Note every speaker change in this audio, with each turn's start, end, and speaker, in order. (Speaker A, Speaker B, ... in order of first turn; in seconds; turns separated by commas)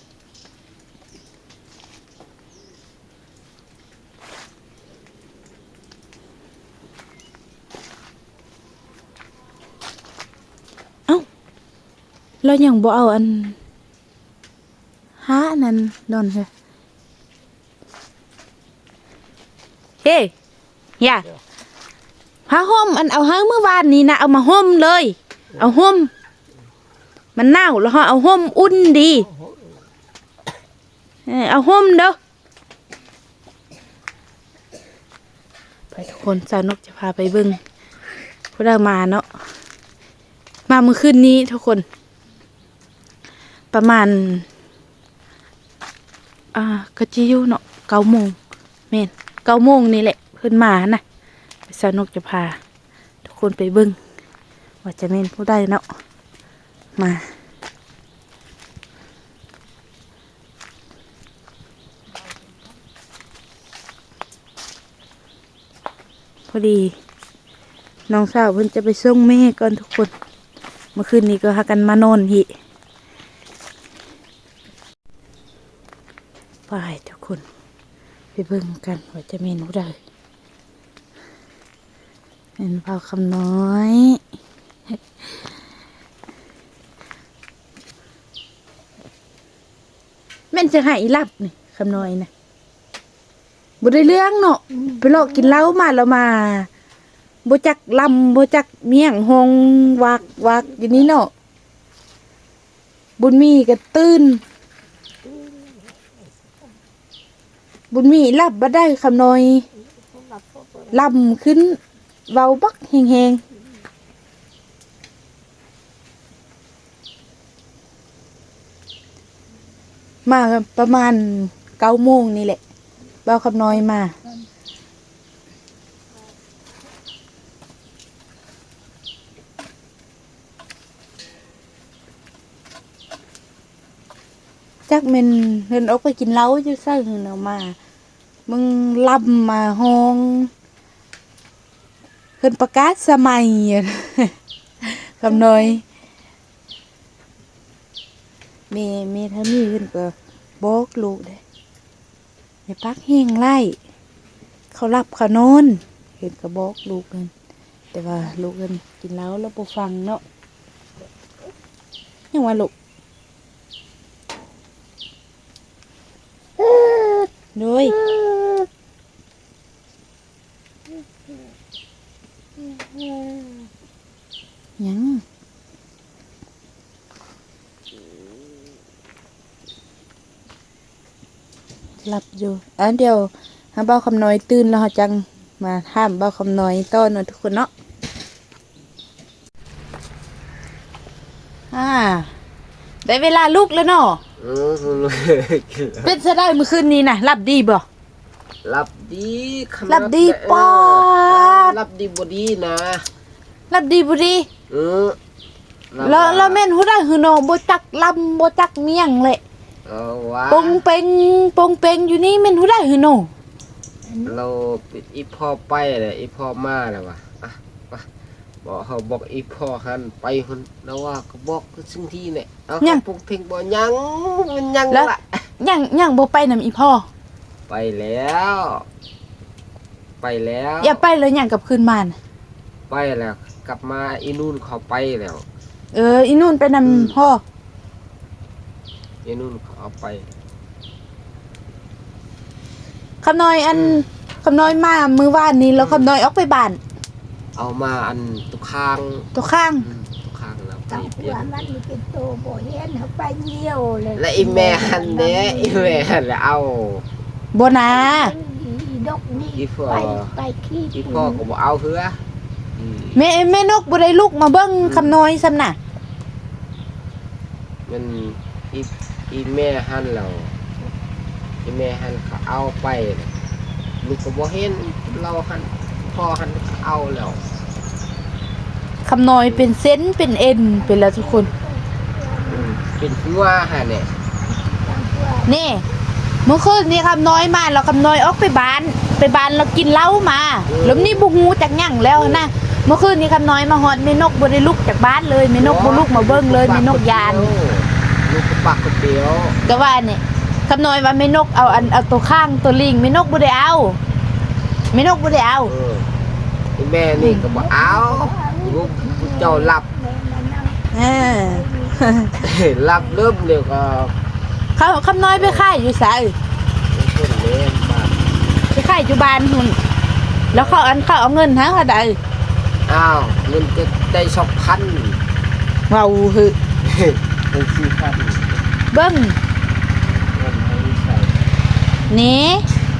Speaker A: 12.4-13.6, Speaker A: 15.2-16.5, Speaker A: 20.0-20.3, Speaker A: 21.0-21.3, Speaker A: 22.5-26.1, Speaker A: 27.4-29.3, Speaker A: 31.2-32.1, Speaker A: 35.9-37.6, Speaker A: 38.5-39.2, Speaker A: 40.7-41.8, Speaker A: 43.7-44.5, Speaker A: 46.5-48.3, Speaker A: 48.9-51.0, Speaker A: 51.7-52.5, Speaker A: 53.2-54.0, Speaker A: 54.8-55.8, Speaker A: 57.0-57.2, Speaker A: 66.5-66.9, Speaker A: 68.1-70.1, Speaker A: 70.9-72.5, Speaker A: 76.7-77.4, Speaker A: 78.3-80.0, Speaker A: 82.6-84.2, Speaker A: 90.5-92.3, Speaker A: 93.8-96.7, Speaker A: 97.4-101.3, Speaker A: 103.2-104.4, Speaker A: 107.9-109.6, Speaker A: 110.9-113.4, Speaker A: 120.2-122.6, Speaker A: 123.2-124.1, Speaker A: 134.9-137.8, Speaker A: 138.5-140.5, Speaker A: 142.4-144.3, Speaker A: 144.8-145.8, Speaker A: 148.7-151.4, Speaker A: 152.7-153.8, Speaker A: 154.7-157.3, Speaker A: 157.9-160.2, Speaker A: 162.3-162.7, Speaker A: 167.5-168.0, Speaker A: 174.8-175.2, Speaker A: 182.0-187.7, Speaker A: 191.7-192.3, Speaker A: 193.0-194.2, Speaker B: 194.4-196.1, Speaker A: 196.0-197.8, Speaker B: 198.6-203.0, Speaker A: 199.9-201.8, Speaker A: 203.7-204.5, Speaker B: 204.7-205.2, Speaker B: 205.9-206.6, Speaker A: 206.0-209.4, Speaker B: 209.8-210.8, Speaker A: 210.5-213.3, Speaker B: 214.2-218.1, Speaker B: 218.6-225.3, Speaker A: 224.9-227.1, Speaker B: 227.7-228.8, Speaker B: 230.2-231.0, Speaker A: 230.8-232.2, Speaker B: 232.9-235.4, Speaker A: 235.9-237.4, Speaker B: 236.8-237.1, Speaker B: 239.2-240.3, Speaker A: 243.2-246.8, Speaker B: 243.7-244.0, Speaker B: 245.8-246.1, Speaker B: 247.5-249.3, Speaker A: 249.3-249.8, Speaker B: 249.8-251.7, Speaker C: 250.9-256.0, Speaker B: 254.1-257.0, Speaker A: 257.5-258.3, Speaker C: 258.1-261.4, Speaker B: 259.5-260.4, Speaker B: 260.9-262.2, Speaker B: 262.7-263.2, Speaker A: 263.1-265.8, Speaker B: 264.8-265.2, Speaker B: 267.9-270.5, Speaker B: 271.6-273.3, Speaker B: 274.0-277.4, Speaker A: 279.1-281.5, Speaker C: 281.1-282.7, Speaker B: 282.4-284.1, Speaker C: 284.8-285.5, Speaker A: 285.4-285.8, Speaker A: 286.4-297.5, Speaker B: 290.7-291.2, Speaker B: 292.1-292.4, Speaker B: 295.6-299.7, Speaker A: 299.6-304.0, Speaker B: 301.6-301.9, Speaker A: 304.9-305.7, Speaker B: 305.6-306.1, Speaker B: 306.8-309.9, Speaker A: 307.1-307.4, Speaker C: 307.4-312.2, Speaker A: 310.9-312.3, Speaker B: 312.4-314.1, Speaker A: 314.8-316.3, Speaker B: 315.2-315.7, Speaker B: 316.9-318.2, Speaker A: 318.7-319.8, Speaker B: 320.5-320.8, Speaker A: 320.5-322.1, Speaker B: 322.9-325.2, Speaker A: 325.9-326.6, Speaker B: 326.8-328.6, Speaker A: 328.9-329.4, Speaker B: 330.3-331.4, Speaker A: 332.1-332.6